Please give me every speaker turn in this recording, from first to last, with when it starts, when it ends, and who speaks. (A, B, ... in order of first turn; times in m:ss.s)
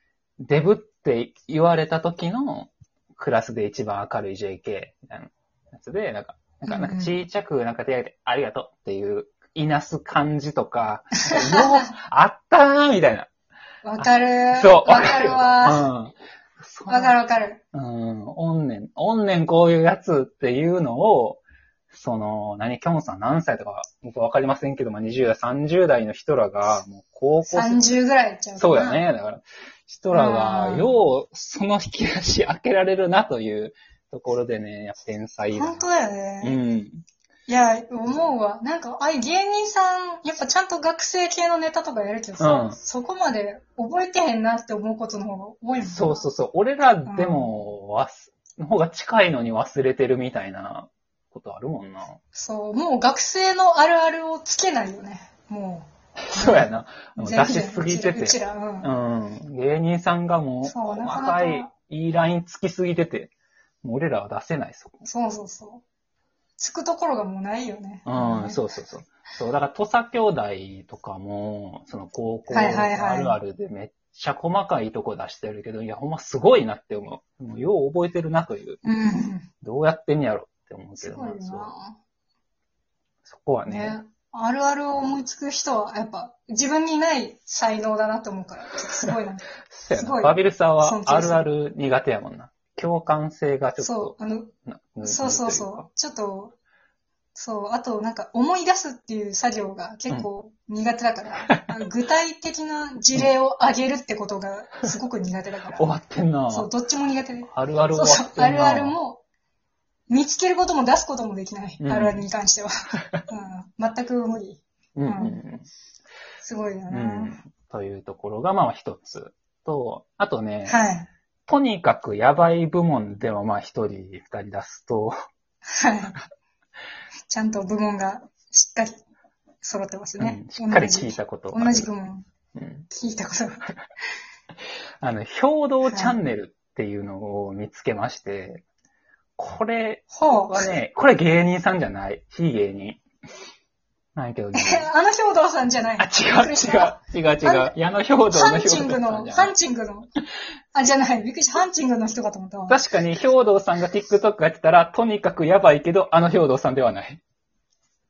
0:00.4-0:13.3 A
0:06.7-0:07.1 B
0:11.3-0:11.6 B
0:13.8-0:15.8 B
0:14.0-0:17.2 A
0:16.9-0:17.6 B
0:17.7-0:27.9 A
0:27.5-0:29.0 B
0:28.6-0:35.9 A
0:30.1-0:30.9 B
0:35.5-0:36.6 B
0:36.4-0:37.0 A
0:37.5-0:46.3 B
0:42.4-0:42.8 A
0:45.8-0:52.2 A
0:47.1-0:47.5 B
0:52.3-0:58.9 B
0:56.2-1:03.3 A
1:00.6-1:01.7 B
1:03.8-1:05.1 A
1:05.1-1:05.8 B
1:06.6-1:08.6 B
1:08.0-1:18.8 A
1:12.5-1:13.4 B
1:18.8-1:19.5 B
1:19.6-1:21.7 A
1:21.0-1:22.0 B
1:23.3-1:24.0 A
1:23.7-1:31.5 B
1:29.7-1:35.9 A
1:33.8-1:34.5 B
1:35.0-1:36.6 B
1:37.4-1:45.9 B
1:45.8-1:46.7 A
1:46.5-1:49.2 B
1:47.5-1:49.0 A
1:50.1-1:52.7 B
1:51.8-1:52.3 A
1:53.3-1:55.4 B
1:55.0-1:55.7 A
1:56.4-1:57.4 B
1:56.9-2:00.8 A
2:00.7-2:01.1 B
2:01.5-2:05.1 A
2:05.7-2:06.2 B
2:07.3-2:09.0 B
2:09.6-2:12.3 B
2:10.2-2:11.9 A
2:12.5-2:12.9 A
2:12.9-2:13.7 B
2:15.0-2:18.6 A
2:15.9-2:16.2 B
2:19.4-2:23.0 A
2:20.1-2:20.7 B
2:24.2-2:24.9 A
2:24.5-2:27.7 B
2:26.0-2:29.5 A
2:28.3-2:30.1 B
2:30.7-2:32.8 B
2:32.7-2:37.2 A